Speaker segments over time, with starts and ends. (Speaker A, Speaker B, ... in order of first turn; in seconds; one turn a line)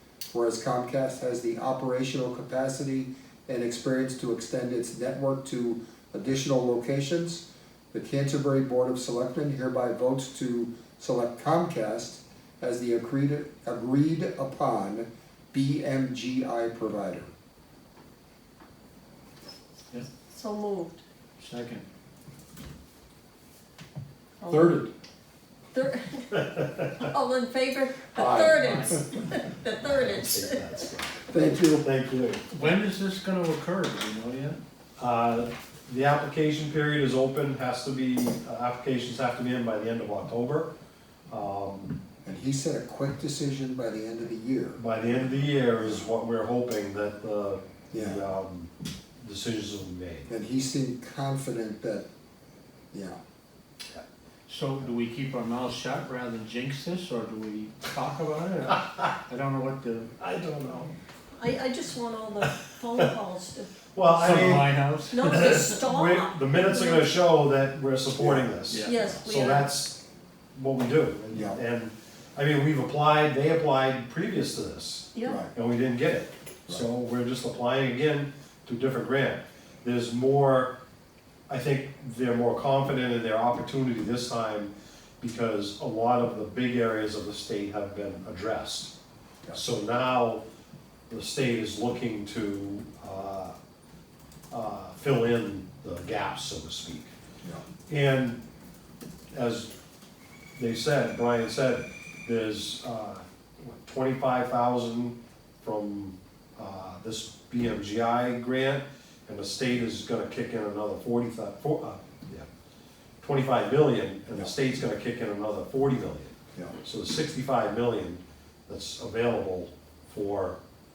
Speaker A: 0.3-17.3
Speaker B: 20.3-21.0
Speaker C: 21.4-21.8
Speaker B: 24.4-24.8
Speaker A: 24.5-24.9
Speaker B: 25.7-30.6
Speaker D: 26.3-27.1
Speaker A: 28.1-29.0
Speaker C: 28.4-29.1
Speaker D: 29.7-32.4
Speaker A: 31.3-31.9
Speaker C: 32.5-34.6
Speaker D: 35.0-40.7
Speaker D: 41.3-42.0
Speaker A: 42.2-46.1
Speaker D: 44.8-50.3
Speaker A: 47.9-48.2
Speaker A: 50.3-52.1
Speaker A: 52.9-53.2
Speaker C: 54.5-60.1
Speaker D: 60.2-60.9
Speaker B: 61.3-63.7
Speaker D: 63.9-70.0
Speaker C: 64.1-65.4
Speaker B: 64.3-64.5
Speaker B: 65.1-67.1
Speaker A: 68.1-69.2
Speaker C: 68.7-69.0
Speaker B: 68.8-69.7
Speaker D: 70.5-80.7
Speaker A: 71.3-71.6
Speaker B: 75.1-75.4
Speaker A: 75.2-75.5
Speaker D: 81.5-88.9
Speaker D: 89.5-90.4
Speaker D: 91.1-93.5
Speaker D: 94.5-97.1
Speaker D: 97.9-98.4
Speaker D: 99.3-99.7
Speaker D: 100.6-112.5
Speaker D: 113.2-120.6